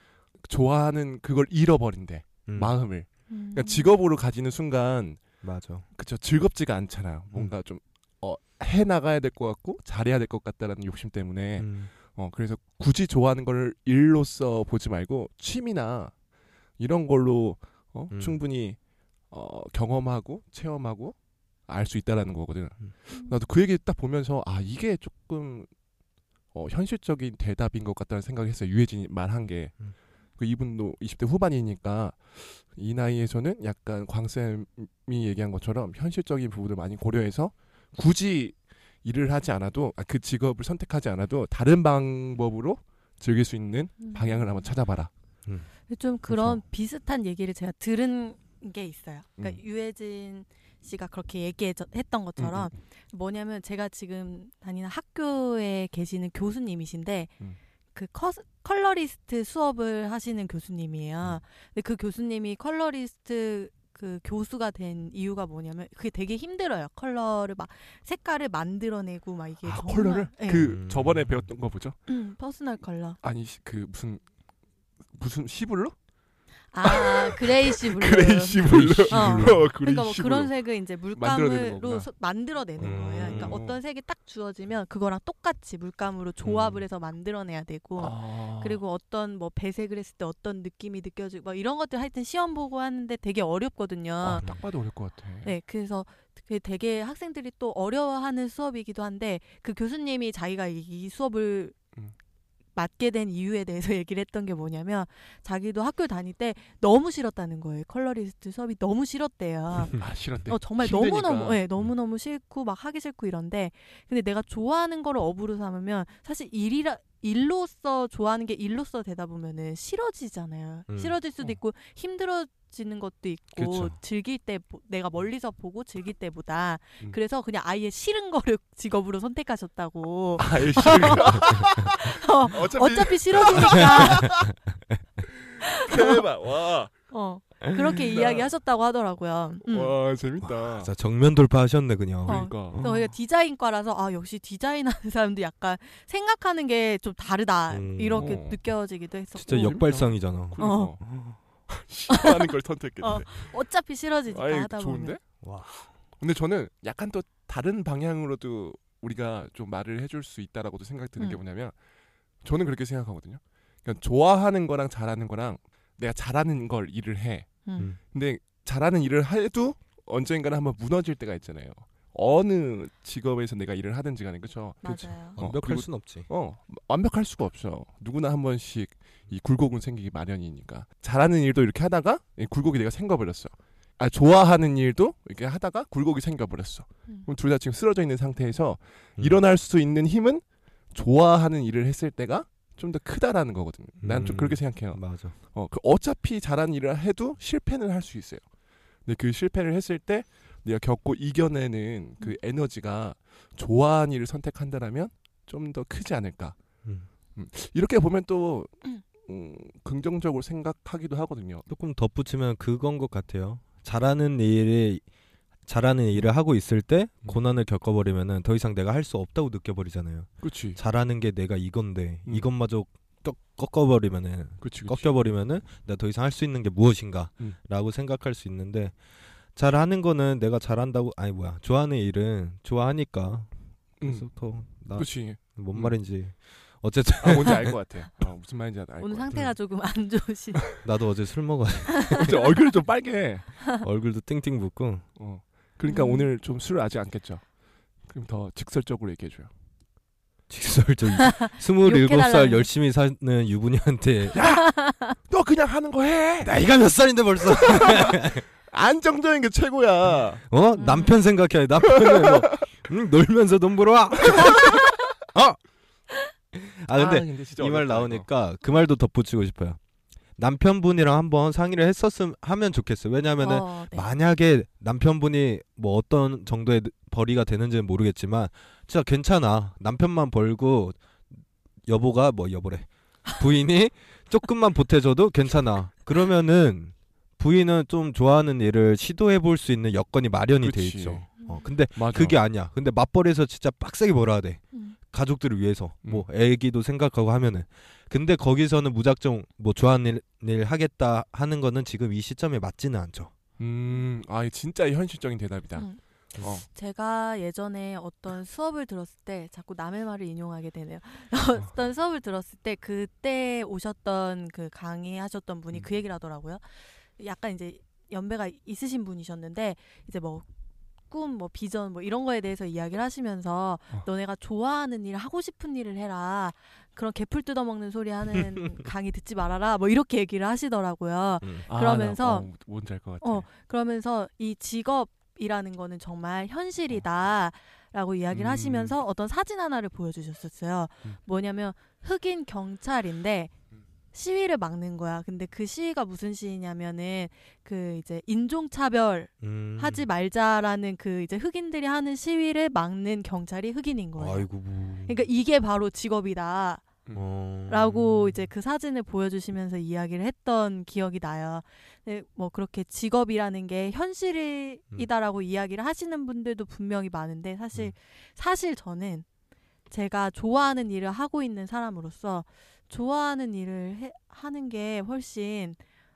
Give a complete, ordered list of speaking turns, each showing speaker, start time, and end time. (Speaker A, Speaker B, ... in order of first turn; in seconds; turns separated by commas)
Speaker A: 0.4-5.3, Speaker B: 2.5-2.7, Speaker C: 3.3-3.9, Speaker B: 5.4-5.8, Speaker A: 5.9-16.1, Speaker B: 11.6-11.9, Speaker A: 16.8-18.8, Speaker B: 18.1-18.4, Speaker A: 19.3-21.1, Speaker A: 21.7-25.7, Speaker A: 26.5-29.7, Speaker A: 30.4-45.1, Speaker C: 44.0-44.5, Speaker C: 45.9-57.3, Speaker A: 46.3-46.6, Speaker A: 52.4-52.7, Speaker C: 57.9-70.7, Speaker A: 69.6-72.0, Speaker B: 70.5-71.5, Speaker C: 72.1-73.2, Speaker A: 73.2-74.2, Speaker A: 75.1-75.9, Speaker C: 76.7-94.5, Speaker A: 76.8-80.5, Speaker B: 78.6-79.6, Speaker A: 81.1-82.1, Speaker A: 82.8-83.8, Speaker B: 82.8-83.6, Speaker A: 88.0-88.8, Speaker A: 94.2-95.5, Speaker C: 95.4-101.8, Speaker C: 102.7-134.4, Speaker A: 109.9-111.7, Speaker B: 120.9-121.2, Speaker B: 123.6-123.9, Speaker A: 130.4-134.5, Speaker B: 133.9-134.5, Speaker A: 135.3-136.9, Speaker C: 135.6-136.2, Speaker C: 137.1-139.9, Speaker A: 138.1-138.5, Speaker A: 139.6-140.9, Speaker B: 140.4-143.0, Speaker A: 142.2-142.9, Speaker C: 142.2-149.8, Speaker B: 147.7-148.4, Speaker A: 148.1-148.6, Speaker B: 149.4-151.4, Speaker A: 149.5-151.0, Speaker C: 150.6-150.9, Speaker A: 151.7-153.5, Speaker C: 152.1-152.4, Speaker C: 153.0-155.2, Speaker A: 154.3-155.2, Speaker B: 155.4-155.9, Speaker A: 156.2-161.7, Speaker A: 162.4-198.4, Speaker C: 167.7-167.9, Speaker C: 174.8-175.4, Speaker B: 175.3-176.3, Speaker B: 194.0-195.3, Speaker A: 199.0-206.6, Speaker A: 207.3-211.7, Speaker B: 211.7-215.0, Speaker B: 215.7-228.9, Speaker A: 220.4-220.8, Speaker A: 224.6-225.1, Speaker B: 229.6-237.8, Speaker A: 234.0-234.3, Speaker A: 234.9-235.9, Speaker A: 237.2-239.3, Speaker C: 239.0-240.6, Speaker B: 240.8-242.4, Speaker C: 241.9-242.3, Speaker A: 242.2-243.4, Speaker B: 243.8-245.1, Speaker A: 245.2-247.4, Speaker C: 245.9-246.3, Speaker A: 248.1-249.5, Speaker B: 250.5-254.4, Speaker C: 251.2-252.7, Speaker A: 254.3-254.7, Speaker C: 254.6-255.2, Speaker A: 255.2-256.5, Speaker B: 256.4-258.4, Speaker A: 257.6-260.4, Speaker B: 260.5-265.6, Speaker C: 260.8-261.1, Speaker A: 261.8-262.5, Speaker A: 264.2-264.6, Speaker B: 266.5-269.8, Speaker A: 266.9-268.3, Speaker B: 270.4-281.0, Speaker C: 273.4-274.1, Speaker B: 281.9-303.3, Speaker A: 290.6-291.3, Speaker C: 291.4-291.6, Speaker A: 291.9-292.4, Speaker A: 303.6-306.6, Speaker C: 306.7-316.6, Speaker C: 317.2-320.5, Speaker C: 321.1-332.5, Speaker A: 331.7-333.4, Speaker C: 333.2-343.5, Speaker A: 338.3-338.9, Speaker C: 344.1-354.5, Speaker B: 349.4-350.0, Speaker B: 354.2-355.2, Speaker C: 355.1-356.9, Speaker B: 357.1-358.5, Speaker C: 357.7-369.2, Speaker C: 369.9-375.8